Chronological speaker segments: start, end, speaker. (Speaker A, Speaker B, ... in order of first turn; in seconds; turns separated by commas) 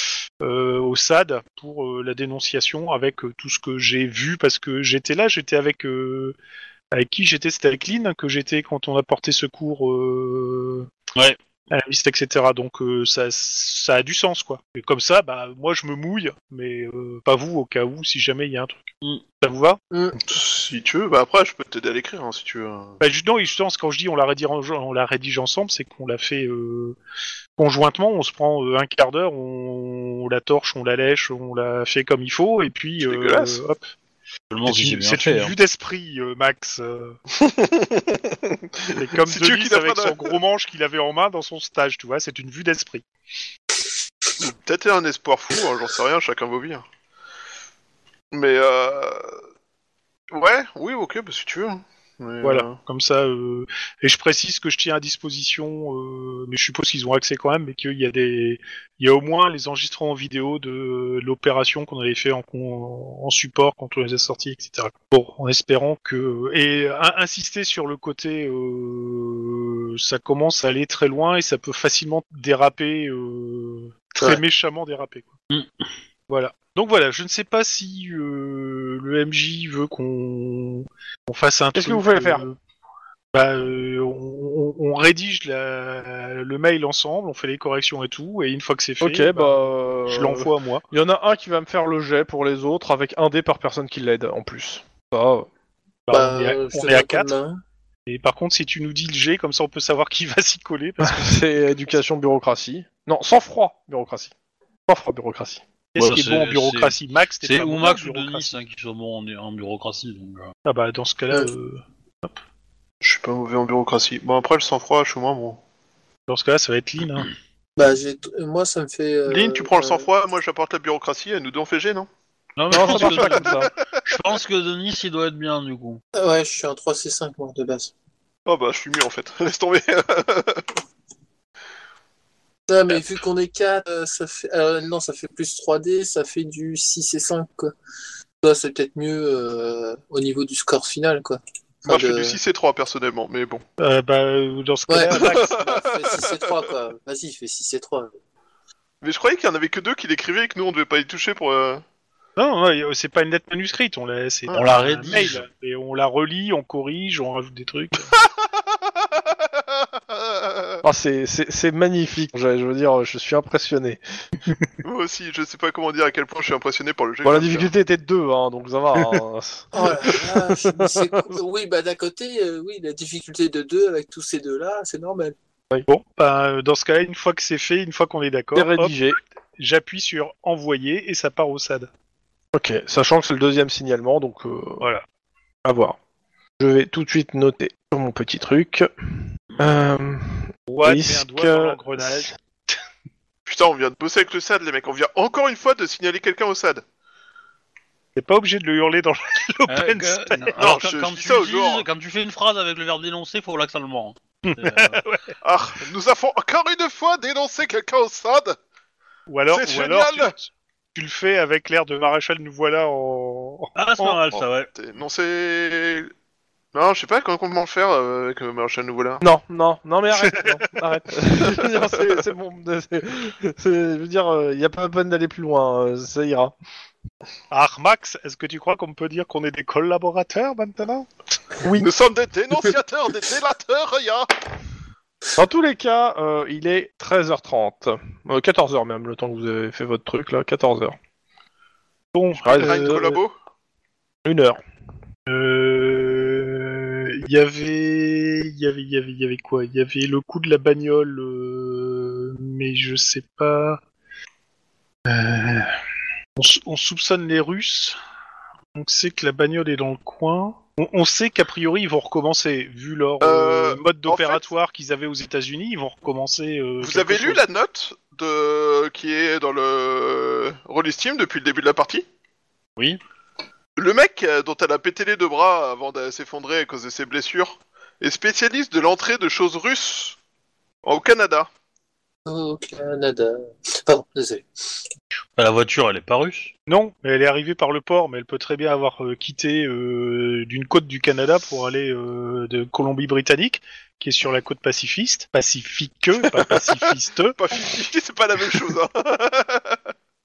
Speaker A: 0.4-6.4, Speaker A: 6.9-10.9, Speaker A: 11.7-19.8, Speaker B: 19.9-20.2, Speaker C: 20.2-23.0, Speaker A: 23.0-27.0, Speaker A: 27.6-33.8, Speaker C: 33.0-33.6, Speaker D: 34.5-35.5, Speaker A: 34.7-37.2, Speaker C: 37.4-40.3, Speaker A: 39.0-43.0, Speaker C: 44.4-46.8, Speaker C: 48.3-49.4, Speaker C: 50.3-52.8, Speaker A: 52.4-75.3, Speaker A: 76.3-82.6, Speaker E: 81.8-82.5, Speaker A: 83.3-90.8, Speaker E: 89.0-95.5, Speaker A: 96.1-97.3, Speaker B: 96.1-97.6, Speaker A: 98.1-101.7, Speaker E: 101.0-104.3, Speaker E: 104.9-105.6, Speaker A: 106.0-108.6, Speaker D: 106.0-110.5, Speaker A: 110.7-112.3, Speaker C: 113.0-115.6, Speaker A: 116.3-117.3, Speaker B: 117.8-120.1, Speaker C: 119.3-122.1, Speaker D: 122.6-126.0, Speaker E: 122.7-123.7, Speaker C: 122.9-123.7, Speaker B: 126.2-127.9, Speaker C: 128.5-130.7, Speaker B: 132.7-137.7, Speaker B: 138.4-142.4, Speaker C: 141.9-143.6, Speaker A: 143.8-145.6, Speaker B: 144.9-148.1, Speaker C: 145.2-146.6, Speaker C: 149.0-151.8, Speaker A: 152.4-158.1, Speaker D: 154.5-155.5, Speaker C: 158.1-158.5, Speaker C: 159.2-159.6, Speaker C: 160.1-160.8, Speaker E: 160.8-164.0, Speaker C: 164.8-167.7, Speaker E: 167.2-171.4, Speaker B: 169.7-175.3, Speaker A: 175.9-179.0, Speaker E: 178.6-179.2, Speaker A: 179.6-181.9, Speaker E: 182.5-184.8, Speaker E: 185.7-186.0, Speaker E: 186.6-188.9, Speaker E: 189.6-192.3, Speaker A: 190.7-192.4, Speaker C: 193.5-196.8, Speaker A: 198.2-200.6, Speaker D: 199.7-205.0, Speaker C: 200.6-201.9, Speaker A: 204.4-205.3, Speaker C: 205.4-208.6, Speaker A: 209.3-214.2, Speaker C: 209.5-210.3, Speaker D: 213.8-214.7, Speaker C: 214.3-216.1, Speaker C: 216.7-219.2, Speaker E: 219.2-226.5, Speaker A: 220.2-220.6, Speaker A: 227.5-231.1, Speaker E: 231.6-231.9, Speaker C: 231.8-234.3, Speaker E: 235.4-241.0, Speaker A: 242.1-243.2, Speaker E: 242.4-243.0, Speaker C: 242.5-243.3, Speaker E: 244.2-244.6, Speaker A: 245.3-253.8, Speaker A: 255.1-255.8, Speaker A: 256.4-258.0, Speaker A: 258.8-267.4, Speaker C: 263.2-264.4, Speaker C: 266.8-272.1, Speaker C: 273.8-280.2, Speaker C: 280.9-281.5, Speaker B: 282.3-284.5, Speaker D: 285.4-286.5, Speaker A: 286.7-297.4, Speaker C: 297.4-299.8